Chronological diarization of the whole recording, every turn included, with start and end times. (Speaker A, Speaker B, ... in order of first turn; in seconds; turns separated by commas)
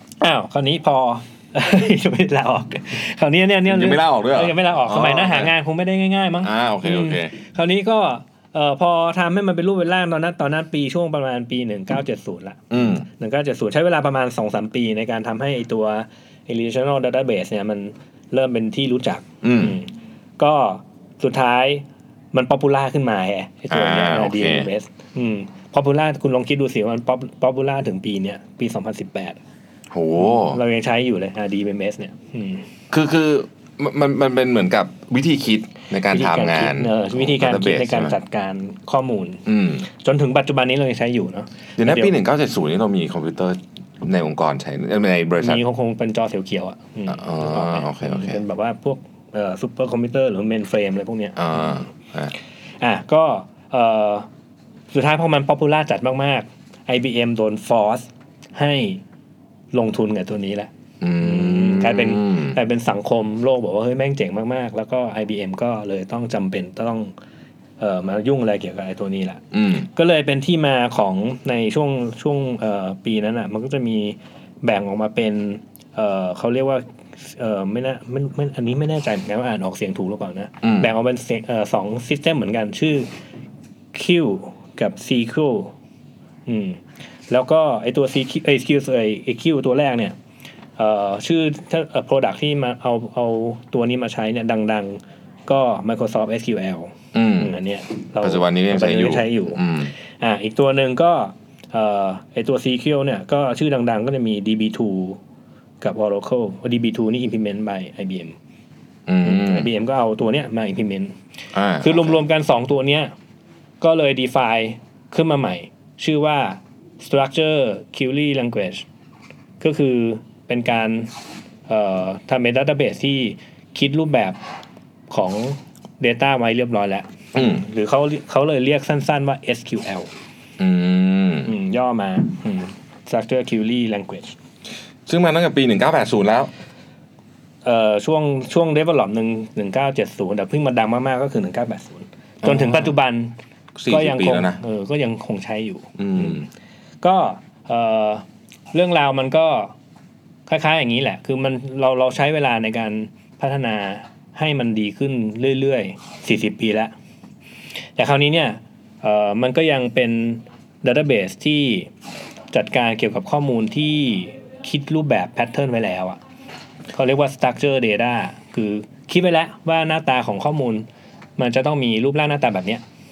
Speaker A: 0.2-29.4, Speaker B: 3.7-5.5, Speaker B: 6.4-7.3, Speaker B: 12.7-13.1, Speaker B: 19.4-19.8, Speaker B: 23.7-24.7, Speaker B: 29.9-30.6, Speaker A: 30.2-32.7, Speaker B: 32.9-38.2, Speaker A: 36.1-42.2, Speaker B: 39.5-39.9, Speaker B: 41.8-45.6, Speaker A: 45.4-51.9, Speaker B: 47.1-48.4, Speaker B: 51.4-52.3, Speaker A: 52.8-54.3, Speaker A: 54.9-59.0, Speaker A: 59.7-67.1, Speaker B: 61.0-62.6, Speaker A: 67.8-83.1, Speaker B: 69.5-69.9, Speaker B: 80.6-80.9, Speaker A: 83.9-85.7, Speaker A: 86.5-90.2, Speaker A: 90.8-105.2, Speaker B: 97.1-97.5, Speaker B: 98.2-99.9, Speaker A: 105.8-108.4, Speaker B: 109.1-109.7, Speaker A: 109.2-111.2, Speaker B: 111.5-112.2, Speaker A: 111.8-113.1, Speaker A: 113.8-118.9, Speaker A: 119.6-121.2, Speaker A: 121.7-124.4, Speaker A: 125.1-130.1, Speaker B: 127.3-127.6, Speaker B: 130.6-131.5, Speaker A: 131.4-134.4, Speaker B: 135.1-136.5, Speaker A: 137.6-143.4, Speaker B: 142.4-142.9, Speaker B: 143.8-144.6, Speaker A: 143.9-146.5, Speaker B: 146.0-146.4, Speaker A: 147.0-149.7, Speaker A: 150.5-156.9, Speaker A: 158.0-161.9, Speaker A: 162.5-166.2, Speaker A: 166.9-170.9, Speaker A: 171.4-172.8